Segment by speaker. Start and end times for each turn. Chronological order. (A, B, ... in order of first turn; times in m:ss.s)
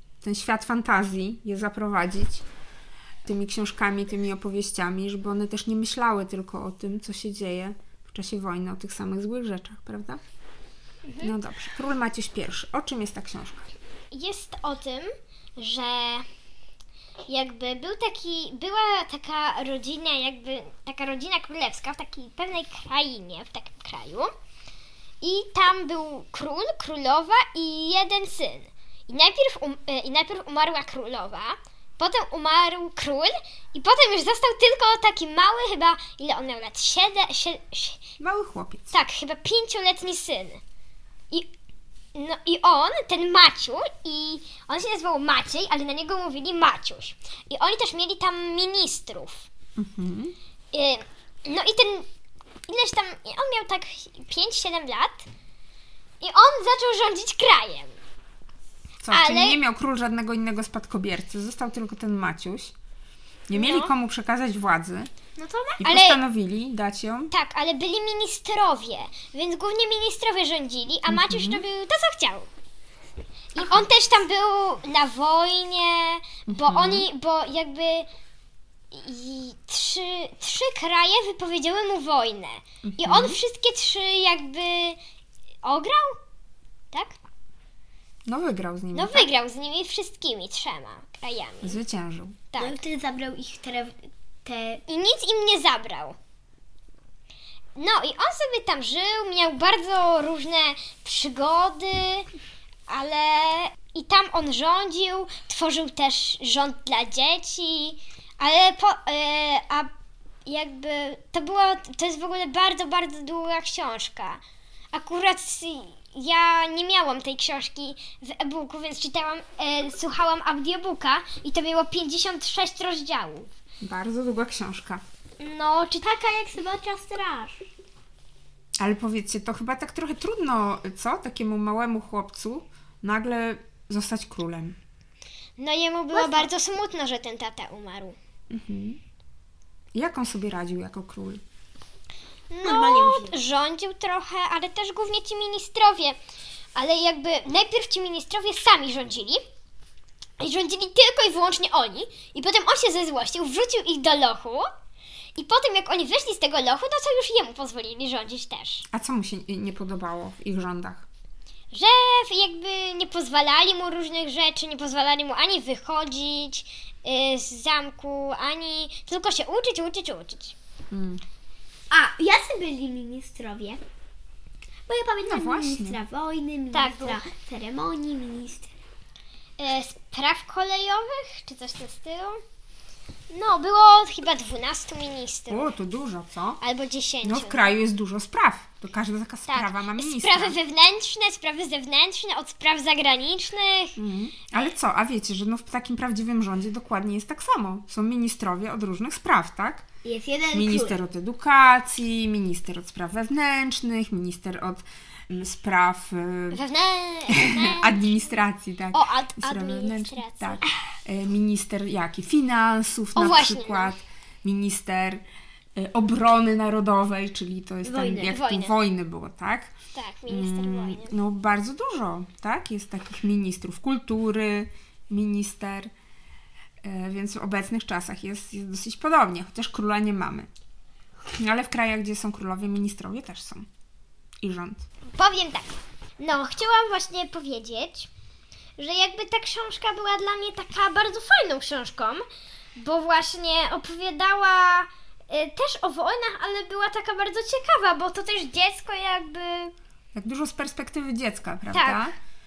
0:00.2-0:02.4 A
0:03.2-0:10.2 A
0:11.0-0:11.3 B
0:11.2-0:13.7 A
0:14.1-0:16.2 B
0:17.3-0:24.3 B
0:25.2-0:38.0 B
0:38.2-0:38.9 A
0:38.9-0:40.6 B
0:42.1-0:49.5 B
0:49.8-0:50.3 A
0:50.7-0:52.1 B
0:52.7-0:55.3 B
0:56.2-0:57.9 B
0:59.0-1:02.7 A
0:59.1-0:59.6 B
1:03.5-1:05.1 A
1:03.5-1:03.9 B
1:05.4-1:06.2 B
1:05.8-1:07.3 A
1:07.3-1:12.5 B
1:11.1-1:11.6 A
1:13.5-1:18.1 B
1:13.6-1:13.9 A
1:16.5-1:17.1 A
1:18.9-1:25.0 B
1:22.8-1:23.4 A
1:25.6-1:26.2 B
1:26.9-1:27.2 B
1:28.2-1:29.3 A
1:28.9-1:31.8 B
1:31.6-1:32.5 A
1:32.5-1:32.8 B
1:32.6-1:34.8 C
1:34.9-1:36.2 B
1:37.8-1:42.3 B
1:42.9-1:49.9 B
1:50.4-1:54.4 B
1:54.9-2:03.5 B
2:03.8-2:05.0 A
2:05.4-2:06.1 B
2:06.0-2:07.6 C
2:08.8-2:14.8 A
2:15.6-2:18.2 B
2:16.1-2:16.5 C
2:18.5-2:19.0 A
2:19.9-2:21.4 A
2:22.5-2:26.2 B
2:22.6-2:23.4 C
2:26.7-2:29.4 B
2:30.4-2:34.7 B
2:35.4-2:38.8 B
2:38.9-2:41.1 A
2:41.7-2:50.5 B
2:50.9-2:51.2 A
2:51.9-2:53.8 C
2:54.9-2:58.7 C
2:55.2-2:56.0 A
2:56.7-2:57.2 B
2:59.6-3:02.4 B
3:03.3-3:05.6 B
3:05.5-3:06.6 A
3:06.6-3:07.7 B
3:07.2-3:10.6 A
3:09.5-3:14.0 B
3:14.0-3:19.8 A
3:20.0-3:20.9 C
3:20.5-3:26.6 A
3:26.5-3:28.4 B
3:27.3-3:35.2 A
3:28.9-3:30.6 B
3:33.1-3:34.0 B
3:35.8-3:39.7 A
3:37.8-3:38.4 C
3:38.3-3:38.7 B
3:39.9-3:41.1 B
3:40.3-3:45.9 A
3:46.8-3:50.5 A
3:51.3-3:53.7 A
3:54.4-3:54.8 A
3:55.1-3:58.1 B
3:58.8-4:02.2 B
4:02.8-4:09.7 B
4:10.1-4:12.1 A
4:11.7-4:12.1 B